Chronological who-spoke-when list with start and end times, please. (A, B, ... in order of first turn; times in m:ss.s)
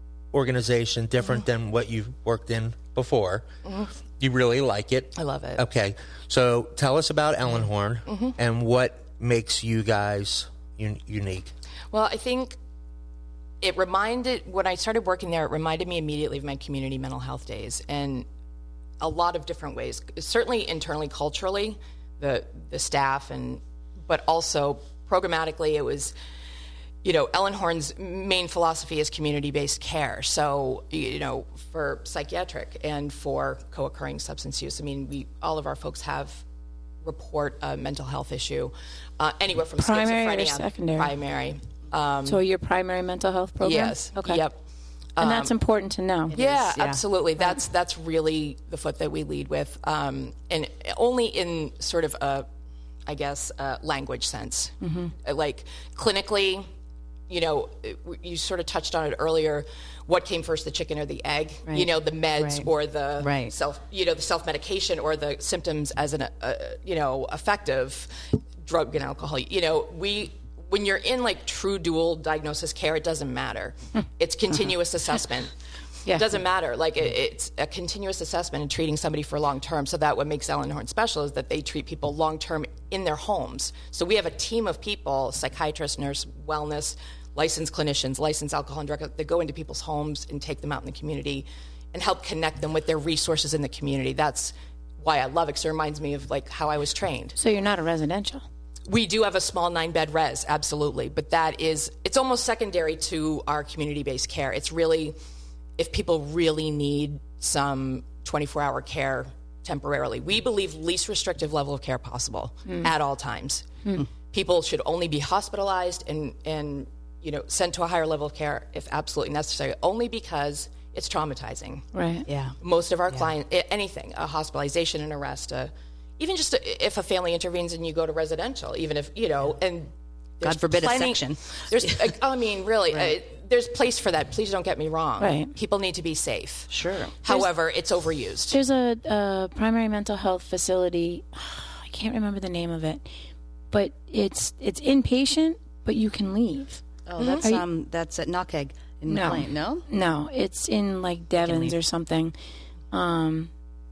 0:00.3-0:03.4 A
0:03.6-0:03.9 B
0:04.2-0:11.5 A
0:05.1-0:05.6 B
0:08.0-0:08.4 B
0:11.9-0:12.6 B
0:13.6-0:18.3 B
0:19.0-0:26.1 B
0:27.0-0:36.4 B
0:37.0-0:42.4 B
0:39.8-0:41.1 C
0:42.2-0:44.4 C
0:43.6-0:44.6 B
0:45.2-0:45.5 B
0:45.2-0:46.4 C
0:46.3-0:47.0 D
0:46.3-0:52.5 B
0:53.0-0:56.7 B
0:54.8-0:55.1 C
0:57.3-1:15.5 B
1:01.7-1:02.7 D
1:03.2-1:03.5 D
1:16.1-1:37.4 B
1:37.3-1:38.4 C
1:38.9-1:45.2 B
1:45.8-2:01.9 B
2:01.9-2:02.2 C
2:02.3-2:02.5 D
2:02.6-2:16.7 B
2:10.4-2:12.1 D
2:12.9-2:13.2 D
2:15.2-2:15.5 C
2:16.7-2:17.2 D
2:17.2-2:18.6 B
2:18.5-2:23.0 C
2:23.7-2:26.8 C
2:27.0-2:29.8 D
2:27.2-2:27.4 B
2:29.1-2:32.3 C
2:31.4-2:31.7 D
2:32.9-2:33.5 C